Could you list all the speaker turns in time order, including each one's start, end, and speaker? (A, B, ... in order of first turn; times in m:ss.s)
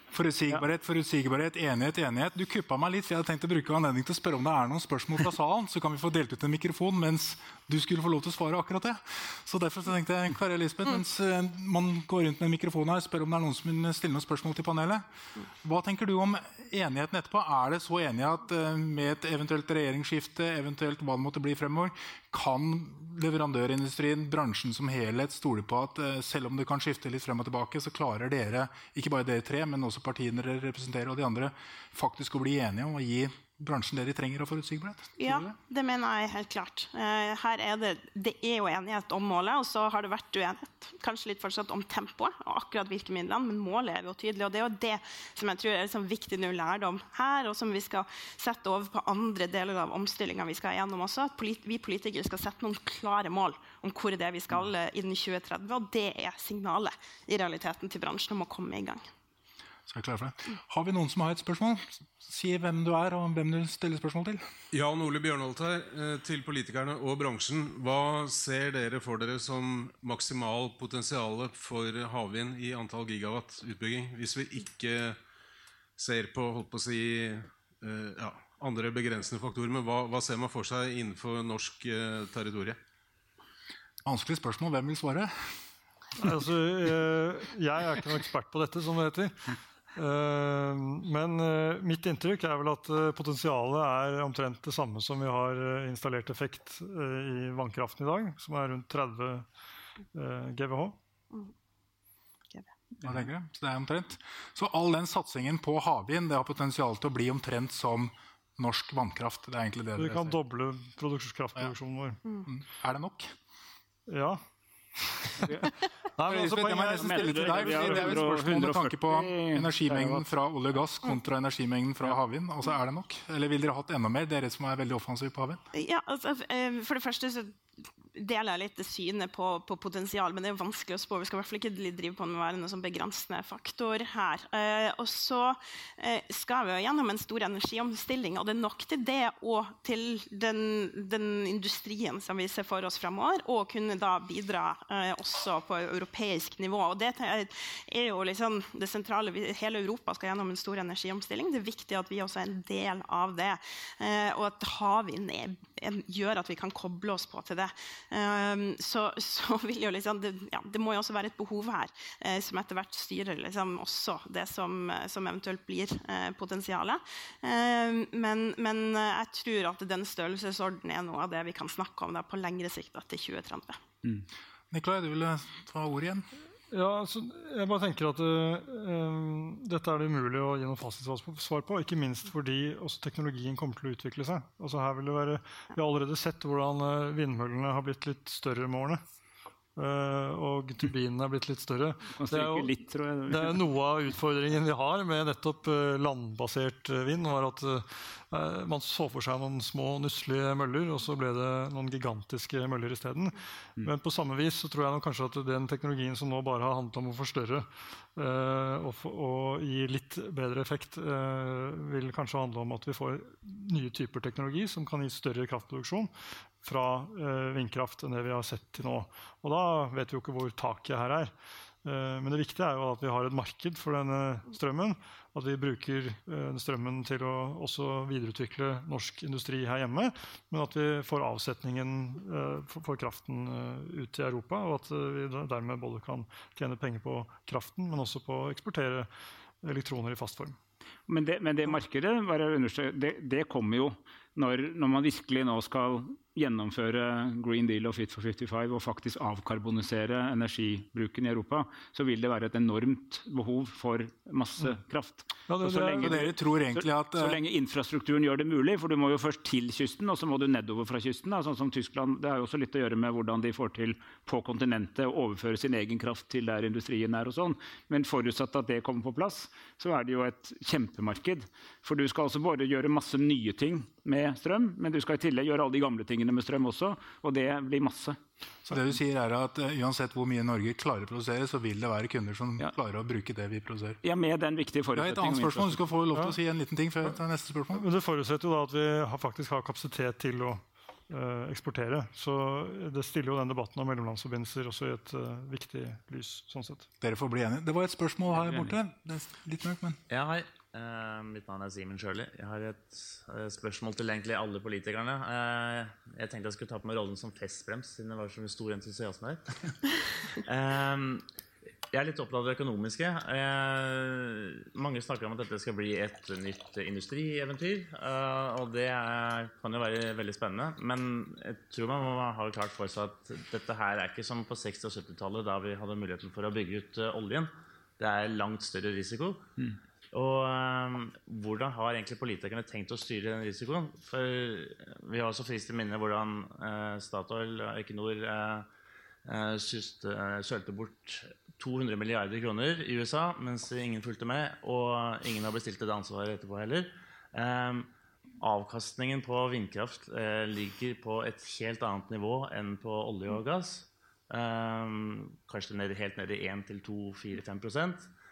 0:00.1-0:15.0 A
0:15.6-0:35.5 A
0:35.2-0:59.0 B
0:59.9-1:04.4 A
1:04.7-1:15.2 C
1:16.0-1:22.8 C
1:24.0-1:25.5 A
1:26.2-1:39.5 D
1:40.1-1:41.0 D
1:43.0-1:50.4 A
1:50.0-1:52.2 D
1:52.5-1:53.3 A
1:54.1-1:54.4 D
1:56.2-1:58.3 D
1:56.2-2:05.6 A
1:57.0-2:00.2 E
2:05.7-2:07.6 B
2:08.2-2:53.8 B
2:54.7-2:56.3 A
2:56.7-3:09.0 D
3:09.8-3:41.3 D
3:12.2-3:13.6 E
3:41.8-3:59.1 D
3:59.6-4:00.6 D
4:01.1-4:38.2 E
4:15.5-4:16.2 D
4:16.0-4:17.4 A
4:38.7-4:44.0 A
4:44.0-4:45.8 E
4:45.0-4:47.8 A
4:47.7-4:56.9 D
4:57.0-5:00.0 A
4:58.4-4:58.7 E
5:00.1-5:09.8 F
5:10.4-5:11.2 F
5:11.9-5:29.5 F
5:30.1-5:38.7 F
5:39.2-5:58.1 F